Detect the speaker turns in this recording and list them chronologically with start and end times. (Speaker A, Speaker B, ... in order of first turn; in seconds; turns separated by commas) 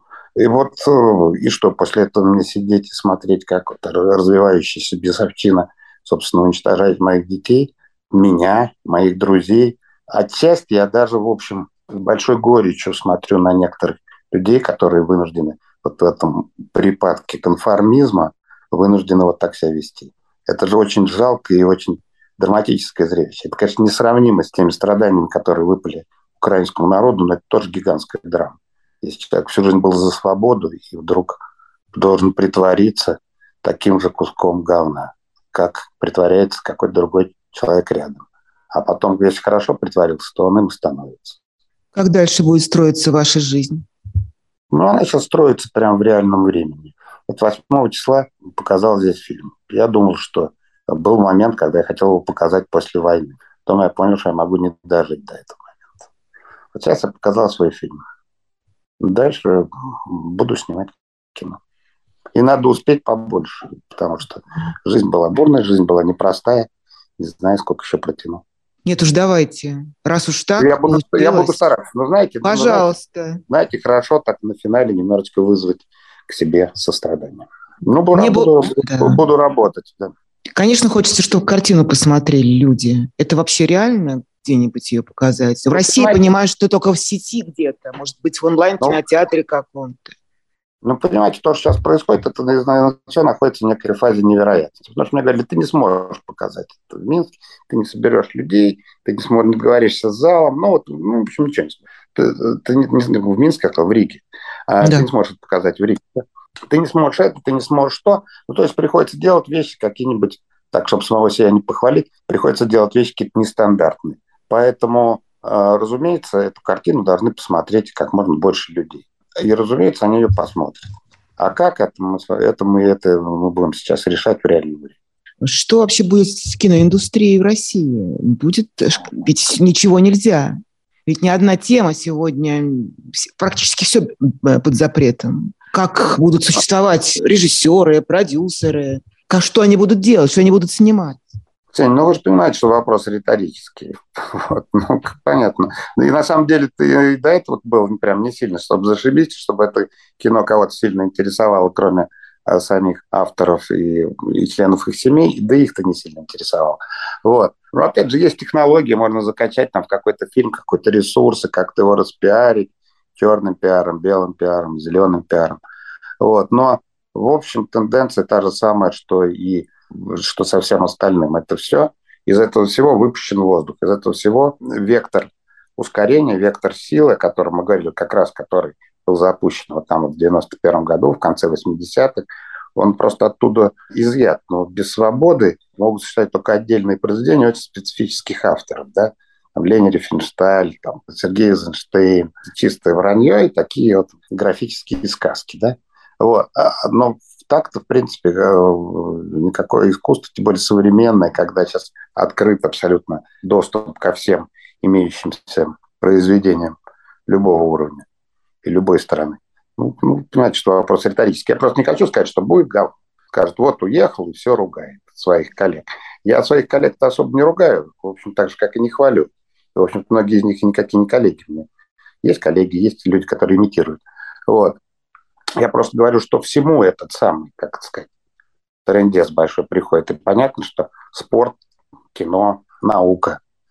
Speaker A: 0.3-31.4, Speaker A: 31.9-41.4, Speaker B: 41.9-43.8, Speaker A: 44.7-56.0, Speaker A: 56.7-58.0, Speaker A: 59.0-61.6, Speaker A: 62.3-68.4, Speaker B: 68.8-71.6, Speaker A: 70.6-72.9, Speaker B: 72.4-73.4, Speaker A: 73.5-80.1, Speaker B: 78.1-79.2, Speaker B: 80.5-90.2, Speaker A: 85.7-86.2, Speaker A: 90.8-125.0, Speaker B: 104.8-105.1, Speaker B: 125.4-141.2, Speaker A: 141.7-165.6, Speaker A: 166.2-206.8, Speaker A: 207.3-208.0, Speaker A: 208.6-221.7, Speaker A: 222.2-224.8, Speaker A: 225.6-228.1, Speaker A: 228.8-231.6, Speaker A: 232.1-233.4